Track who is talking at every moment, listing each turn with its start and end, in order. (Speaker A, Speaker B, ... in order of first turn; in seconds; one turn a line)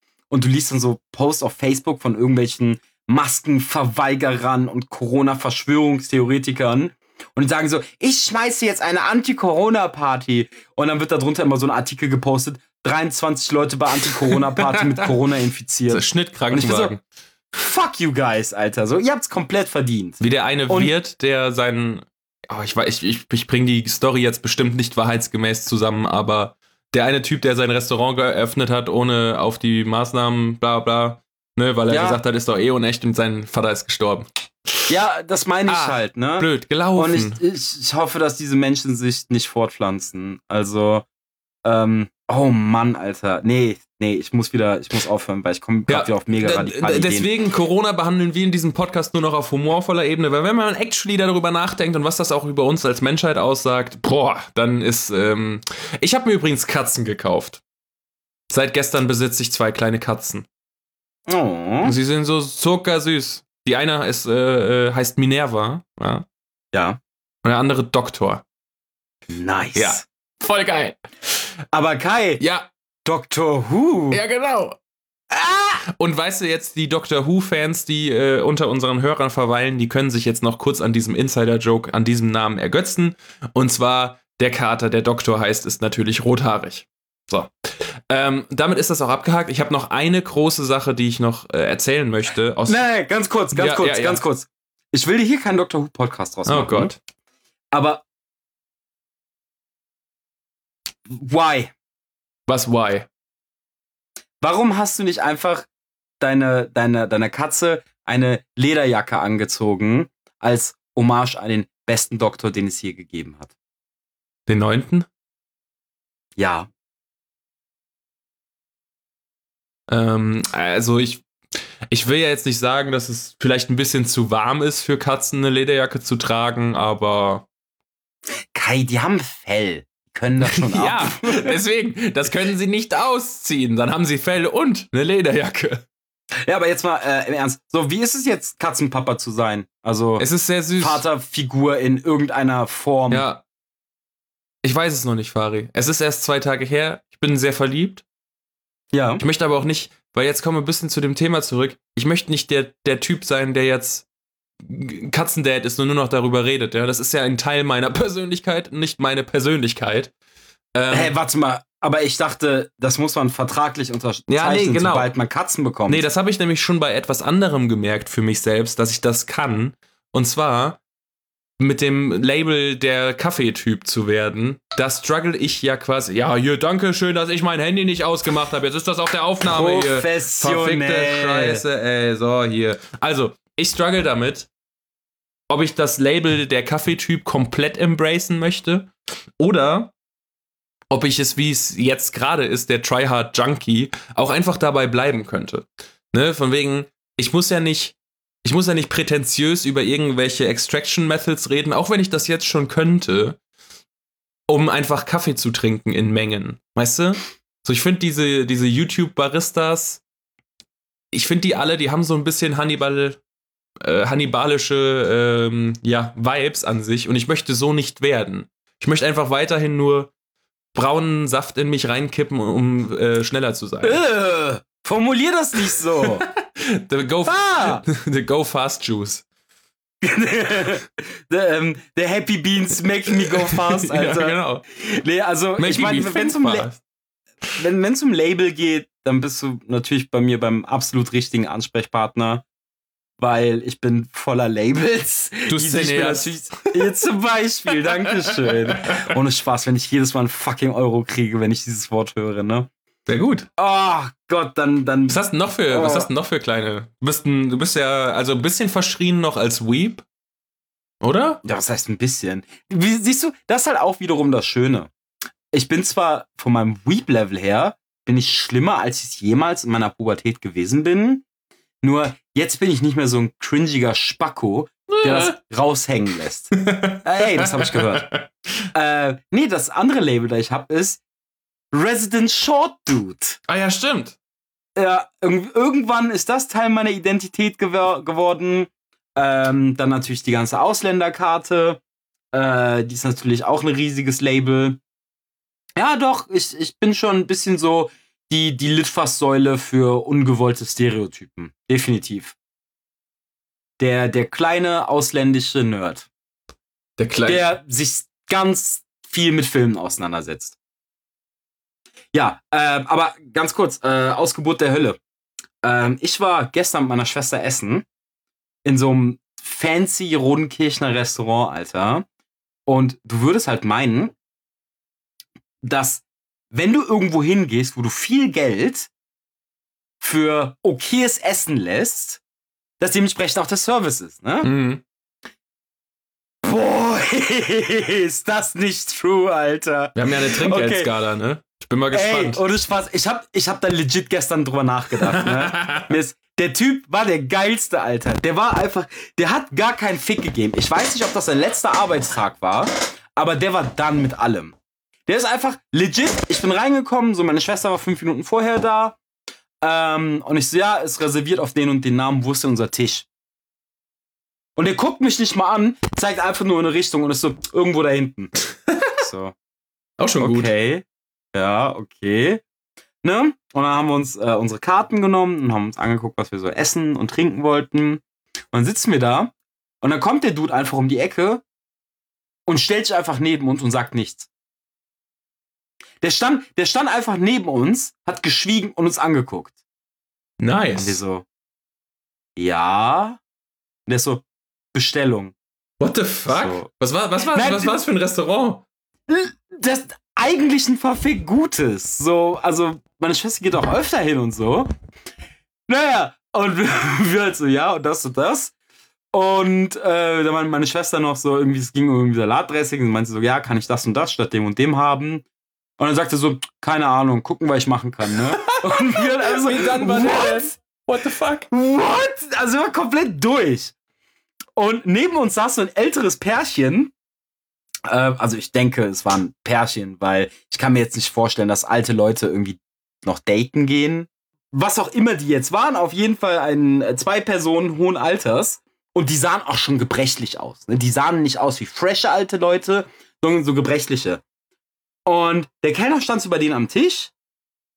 Speaker A: 0.3-16.9
Speaker B: 15.9-17.0
Speaker A: 17.6-20.9
Speaker B: 20.2-34.3
Speaker A: 31.9-32.2
Speaker A: 34.9-41.1
Speaker B: 35.7-37.4
Speaker A: 41.6-47.3
Speaker B: 45.9-57.6
Speaker B: 58.5-60.5
Speaker A: 61.3-62.0
Speaker B: 61.8-66.3
Speaker A: 66.7-67.0
Speaker B: 67.4-68.4
Speaker A: 69.3-70.0
Speaker B: 69.8-71.0
Speaker A: 71.7-72.4
Speaker B: 72.4-72.7
Speaker A: 73.0-74.2
Speaker B: 74.1-74.8
Speaker B: 75.3-87.5
Speaker B: 88.1-92.8
Speaker A: 92.7-97.0
Speaker B: 93.5-94.2
Speaker B: 96.5-97.0
Speaker A: 97.7-98.0
Speaker A: 101.1-101.7
Speaker B: 102.5-103.1
Speaker A: 104.4-105.7
Speaker A: 106.2-113.5
Speaker B: 114.5-115.1
Speaker A: 116.4-116.7
Speaker B: 119.9-121.3
Speaker B: 121.9-127.5
Speaker A: 128.5-131.5
Speaker B: 130.6-135.8
Speaker A: 136.5-140.3
Speaker B: 140.2-141.0
Speaker A: 140.8-143.3
Speaker B: 143.1-143.4
Speaker B: 144.6-148.1
Speaker A: 148.9-149.2
Speaker B: 149.2-154.1
Speaker B: 154.6-160.1
Speaker B: 160.8-161.1
Speaker A: 160.9-166.1
Speaker B: 164.3-165.1
Speaker B: 165.9-170.8
Speaker B: 171.6-184.5
Speaker A: 179.4-181.6
Speaker B: 185.5-189.9
Speaker B: 190.9-203.4
Speaker B: 204.5-210.0
Speaker B: 211.1-213.2
Speaker B: 213.8-220.1
Speaker B: 220.8-224.0
Speaker A: 223.8-226.2
Speaker B: 226.2-229.2
Speaker A: 227.3-227.8
Speaker A: 230.0-236.7
Speaker B: 233.3-234.6
Speaker B: 235.6-236.8
Speaker A: 237.6-242.4
Speaker A: 243.2-252.7
Speaker B: 245.5-246.4
Speaker B: 253.1-253.5
Speaker A: 253.6-256.1
Speaker B: 255.1-260.1
Speaker B: 261.0-261.4
Speaker A: 261.4-264.9
Speaker A: 265.5-271.2
Speaker A: 271.8-278.1
Speaker B: 274.9-275.4
Speaker B: 276.7-277.0
Speaker B: 277.6-278.3
Speaker A: 278.7-281.0
Speaker A: 281.7-283.4
Speaker B: 283.5-284.2
Speaker A: 284.8-291.8
Speaker A: 292.3-294.8
Speaker A: 295.8-302.4
Speaker A: 303.8-306.1
Speaker B: 307.0-307.5
Speaker A: 307.3-310.6
Speaker A: 312.1-315.0
Speaker A: 315.6-317.9
Speaker A: 318.6-322.1
Speaker A: 322.7-324.1
Speaker A: 325.6-328.9
Speaker A: 330.0-332.2
Speaker A: 332.8-334.5
Speaker B: 334.4-334.8
Speaker A: 336.4-340.9
Speaker B: 339.9-342.4
Speaker A: 341.9-359.0
Speaker B: 345.1-345.9
Speaker A: 359.6-363.1
Speaker A: 364.6-368.4
Speaker A: 368.9-369.4
Speaker B: 370.0-370.5
Speaker A: 370.2-372.4
Speaker A: 373.0-381.4
Speaker A: 382.5-384.3
Speaker A: 386.0-389.5
Speaker B: 390.4-391.0
Speaker A: 390.8-391.3
Speaker A: 392.4-393.2
Speaker A: 393.9-395.4
Speaker B: 395.8-398.6
Speaker A: 396.3-397.8
Speaker A: 399.1-404.7
Speaker A: 405.7-408.5
Speaker A: 409.1-415.3
Speaker A: 415.8-420.6
Speaker B: 419.0-421.5
Speaker A: 421.5-423.7
Speaker A: 424.6-426.9
Speaker A: 427.9-444.2
Speaker A: 445.1-447.1